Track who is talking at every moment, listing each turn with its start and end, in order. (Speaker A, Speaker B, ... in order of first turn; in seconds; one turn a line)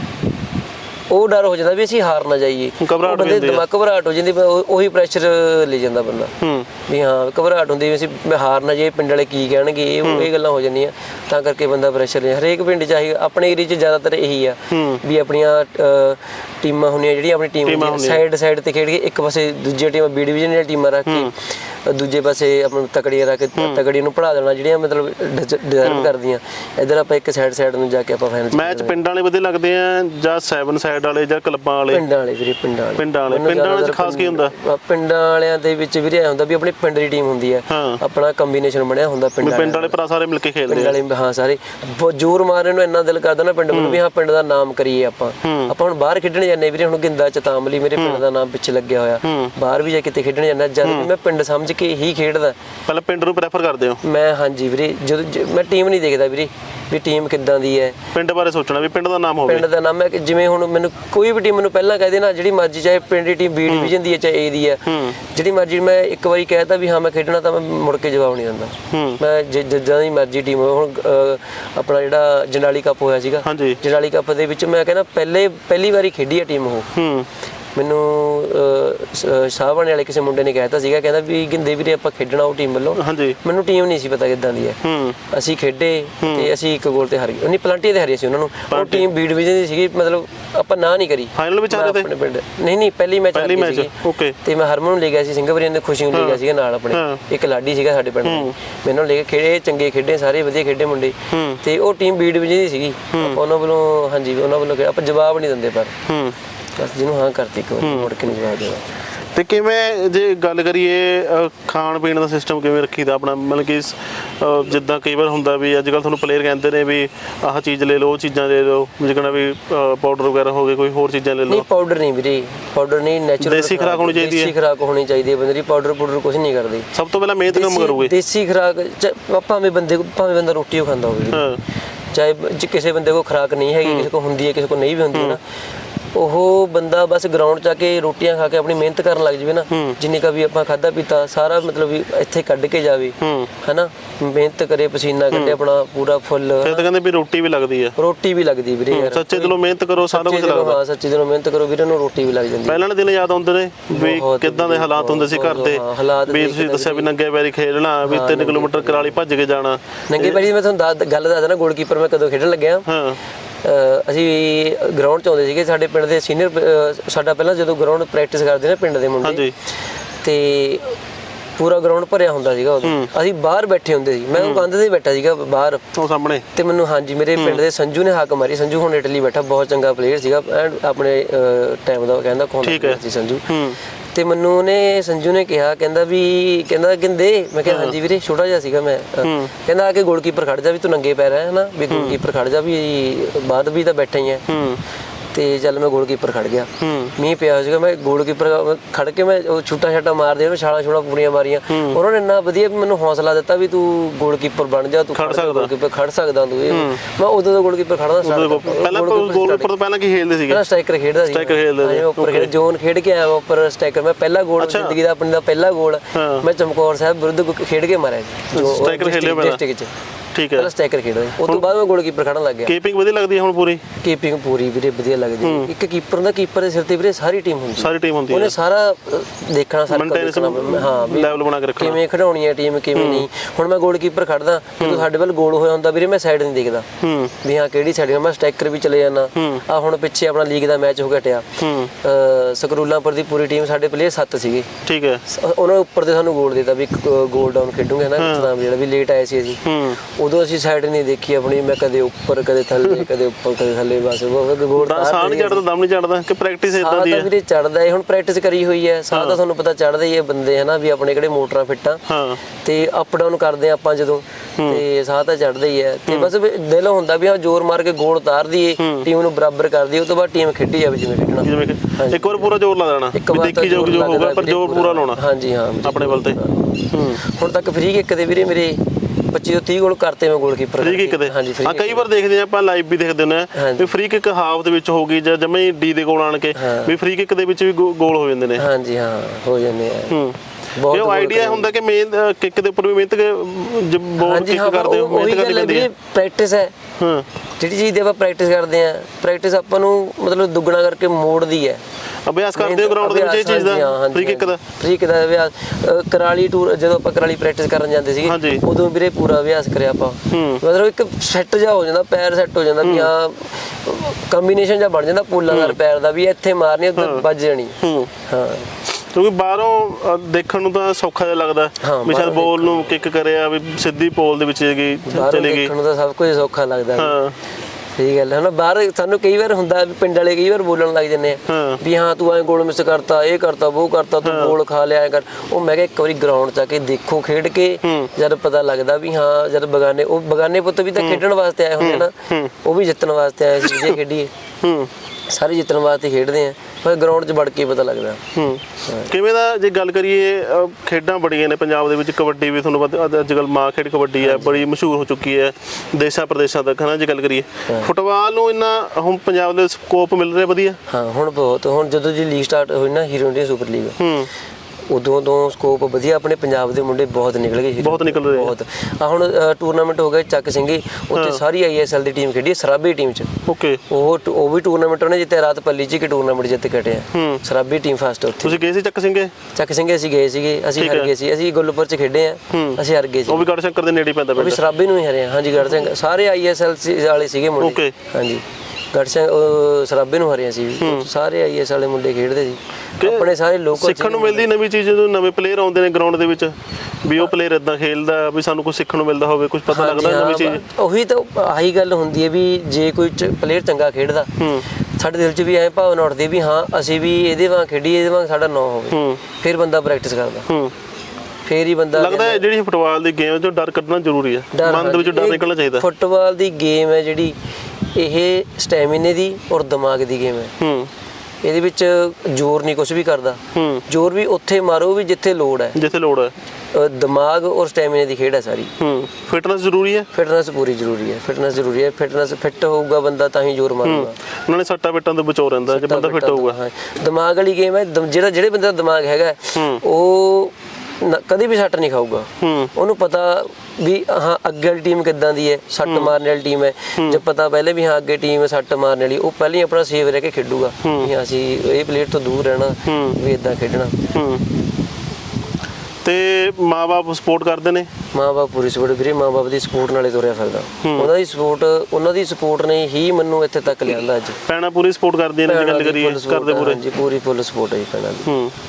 Speaker A: 1.1-6.3
Speaker B: 2.8-3.6
Speaker B: 6.4-6.7
Speaker A: 6.9-28.9
Speaker B: 10.0-10.3
Speaker B: 14.7-15.0
Speaker B: 17.6-18.2
Speaker B: 21.1-21.3
Speaker B: 23.6-23.8
Speaker B: 25.8-26.1
Speaker B: 28.5-32.0
Speaker A: 31.9-40.0
Speaker B: 33.0-34.5
Speaker B: 37.7-38.0
Speaker B: 39.4-41.0
Speaker A: 40.7-52.6
Speaker B: 43.7-44.0
Speaker B: 45.4-45.7
Speaker B: 48.0-48.2
Speaker B: 49.2-49.5
Speaker B: 50.8-51.1
Speaker B: 52.9-54.0
Speaker A: 54.0-58.0
Speaker B: 58.1-59.7
Speaker A: 59.5-76.9
Speaker B: 63.7-63.9
Speaker B: 64.8-65.2
Speaker B: 68.9-69.2
Speaker B: 73.4-73.8
Speaker B: 76.9-77.3
Speaker A: 77.7-106.0
Speaker B: 83.0-83.4
Speaker B: 84.8-85.2
Speaker B: 86.2-86.5
Speaker B: 88.7-89.1
Speaker B: 91.3-92.1
Speaker B: 93.3-94.4
Speaker B: 96.1-96.4
Speaker B: 96.9-97.2
Speaker B: 98.2-98.5
Speaker B: 101.3-101.6
Speaker B: 103.1-103.4
Speaker B: 106.1-106.4
Speaker A: 106.8-108.9
Speaker B: 107.8-108.1
Speaker B: 109.3-121.6
Speaker A: 121.5-126.9
Speaker B: 123.4-124.5
Speaker B: 126.9-128.1
Speaker A: 127.5-131.5
Speaker B: 131.3-131.6
Speaker A: 132.1-135.4
Speaker B: 133.8-134.1
Speaker A: 136.1-146.9
Speaker B: 139.7-140.0
Speaker B: 143.2-143.5
Speaker B: 145.3-145.6
Speaker B: 146.6-148.0
Speaker A: 148.0-152.8
Speaker B: 148.9-150.8
Speaker B: 152.7-160.4
Speaker A: 153.9-157.1
Speaker A: 158.1-159.2
Speaker A: 160.1-162.9
Speaker B: 162.9-163.2
Speaker A: 163.6-169.4
Speaker B: 169.2-169.5
Speaker A: 170.2-170.9
Speaker A: 171.6-175.8
Speaker B: 172.8-173.1
Speaker B: 174.3-174.7
Speaker B: 175.9-176.4
Speaker A: 176.5-183.4
Speaker B: 177.3-177.6
Speaker B: 182.6-183.8
Speaker A: 184.1-194.4
Speaker B: 187.7-188.0
Speaker B: 189.2-189.5
Speaker B: 191.9-192.2
Speaker B: 194.5-194.8
Speaker A: 195.3-209.7
Speaker B: 196.8-197.1
Speaker B: 201.7-202.0
Speaker B: 205.1-205.7
Speaker B: 206.7-207.0
Speaker B: 208.2-210.6
Speaker A: 210.5-219.9
Speaker B: 211.2-212.5
Speaker B: 214.6-215.0
Speaker B: 216.1-216.4
Speaker B: 218.5-219.6
Speaker B: 220.3-220.7
Speaker A: 220.5-222.7
Speaker B: 221.4-221.7
Speaker B: 222.7-223.8
Speaker A: 224.0-236.9
Speaker B: 225.4-225.7
Speaker B: 227.8-228.5
Speaker B: 229.9-232.0
Speaker B: 232.9-233.2
Speaker B: 234.8-235.1
Speaker B: 237.0-237.3
Speaker A: 237.4-244.7
Speaker B: 239.3-239.6
Speaker B: 241.6-241.9
Speaker B: 244.8-245.2
Speaker A: 245.3-255.6
Speaker B: 248.2-248.5
Speaker B: 249.6-250.0
Speaker B: 254.7-257.3
Speaker A: 256.7-262.0
Speaker B: 259.1-259.4
Speaker B: 262.1-262.4
Speaker A: 262.6-272.5
Speaker B: 268.8-269.1
Speaker B: 271.4-275.2
Speaker A: 273.1-282.1
Speaker B: 275.8-276.4
Speaker B: 276.9-277.2
Speaker B: 280.8-288.6
Speaker A: 283.5-283.9
Speaker A: 286.5-286.9
Speaker A: 288.6-290.2
Speaker B: 290.1-290.4
Speaker A: 290.7-291.7
Speaker B: 290.9-295.9
Speaker A: 294.2-296.7
Speaker B: 297.0-297.2
Speaker A: 297.6-301.8
Speaker B: 302.2-304.6
Speaker A: 302.6-318.7
Speaker B: 308.2-308.6
Speaker B: 310.3-310.6
Speaker B: 312.8-313.1
Speaker B: 315.5-315.8
Speaker B: 316.9-317.2
Speaker B: 317.8-318.1
Speaker B: 318.9-325.7
Speaker A: 321.8-322.9
Speaker A: 325.1-327.2
Speaker B: 326.9-327.4
Speaker A: 327.9-344.3
Speaker B: 331.5-331.8
Speaker B: 334.2-334.6
Speaker B: 337.8-338.1
Speaker B: 341.0-341.2
Speaker B: 341.8-342.5
Speaker B: 343.6-343.9
Speaker B: 344.6-344.9
Speaker A: 345.3-348.2
Speaker B: 348.3-360.8
Speaker A: 348.9-349.1
Speaker A: 354.2-354.6
Speaker A: 360.9-364.0
Speaker B: 364.0-364.3
Speaker A: 364.9-373.3
Speaker B: 367.8-368.5
Speaker B: 371.1-371.4
Speaker B: 373.4-373.8
Speaker A: 373.9-378.6
Speaker B: 377.1-377.4
Speaker B: 378.4-379.3
Speaker A: 379.5-383.4
Speaker B: 380.8-381.1
Speaker B: 382.5-384.6
Speaker A: 384.4-394.5
Speaker B: 387.6-387.9
Speaker B: 390.8-391.1
Speaker B: 393.0-400.6
Speaker A: 399.7-404.3
Speaker B: 404.4-404.6
Speaker A: 405.0-410.5
Speaker B: 408.9-409.2
Speaker B: 410.5-410.7
Speaker A: 411.4-412.4
Speaker B: 411.9-415.8
Speaker A: 414.5-417.4
Speaker A: 417.9-420.5
Speaker B: 420.6-420.9
Speaker A: 421.4-425.8
Speaker B: 423.5-423.8
Speaker B: 425.8-426.3
Speaker A: 426.7-428.7
Speaker B: 428.8-430.1
Speaker A: 430.1-434.1
Speaker B: 433.8-436.6
Speaker A: 435.7-454.0
Speaker B: 439.5-439.8
Speaker B: 442.4-442.7
Speaker B: 445.9-446.1
Speaker B: 450.8-451.1
Speaker B: 452.9-453.2
Speaker B: 454.1-454.4
Speaker B: 456.0-457.9
Speaker A: 458.1-464.4
Speaker B: 460.8-461.1
Speaker B: 464.4-466.8
Speaker A: 465.4-468.3
Speaker B: 468.2-468.5